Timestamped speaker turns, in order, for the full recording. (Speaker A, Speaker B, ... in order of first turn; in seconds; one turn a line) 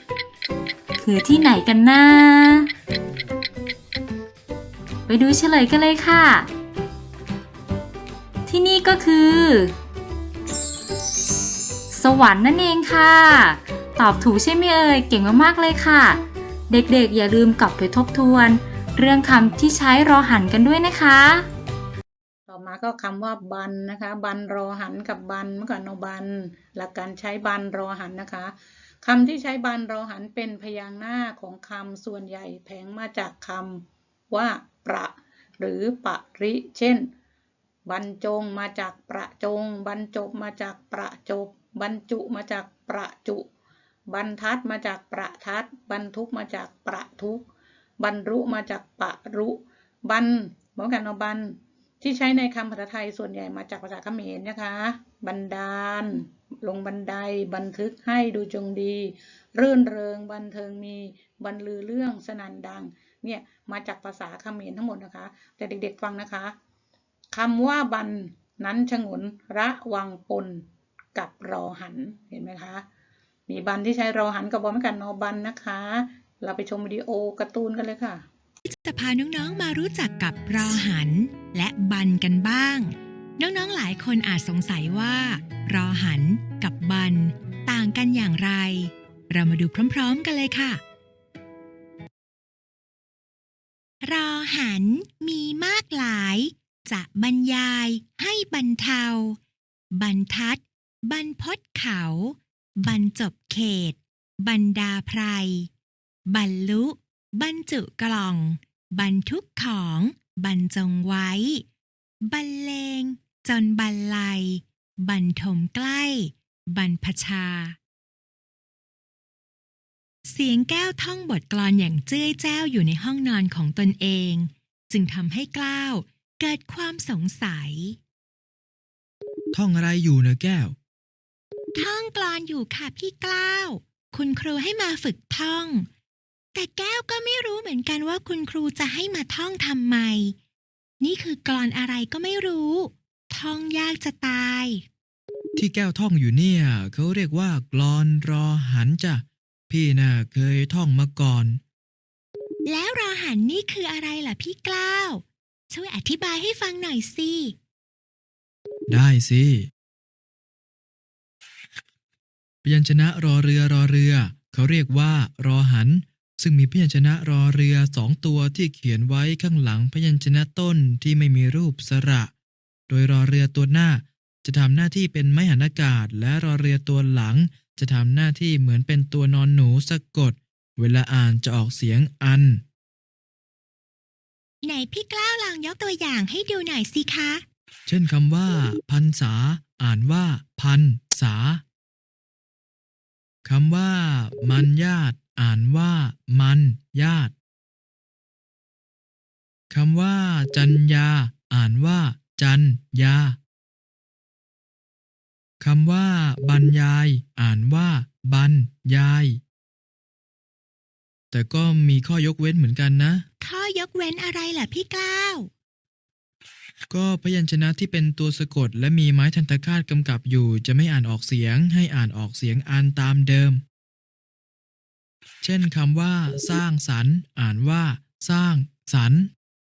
Speaker A: 1.0-2.7
Speaker A: 5.1-6.5
Speaker A: 8.5-9.8
Speaker A: 11.9-21.5
Speaker B: 22.5-37.1
Speaker B: 37.9-43.5
Speaker B: 44.1-47.5
Speaker B: 48.0-66.5
Speaker B: 67.3-72.8
Speaker B: 73.5-78.2
Speaker C: 78.7-90.8
Speaker C: 94.0-99.4
Speaker C: 99.9-105.7
Speaker C: 106.3-111.7
Speaker C: 112.2-117.8
Speaker C: 120.2-128.0
Speaker D: 129.5-130.8
Speaker C: 131.8-135.9
Speaker C: 136.5-140.4
Speaker C: 141.0-144.8
Speaker D: 145.6-151.6
Speaker C: 152.7-157.6
Speaker D: 158.9-159.7
Speaker D: 162.6-172.3
Speaker D: 172.9-182.6
Speaker C: 184.6-187.4
Speaker D: 187.9-191.6
Speaker D: 193.4-197.3
Speaker D: 199.7-203.4
Speaker D: 205.6-209.4
Speaker D: 211.3-213.3
Speaker C: 213.4-215.5
Speaker D: 216.9-223.6
Speaker D: 225.4-229.3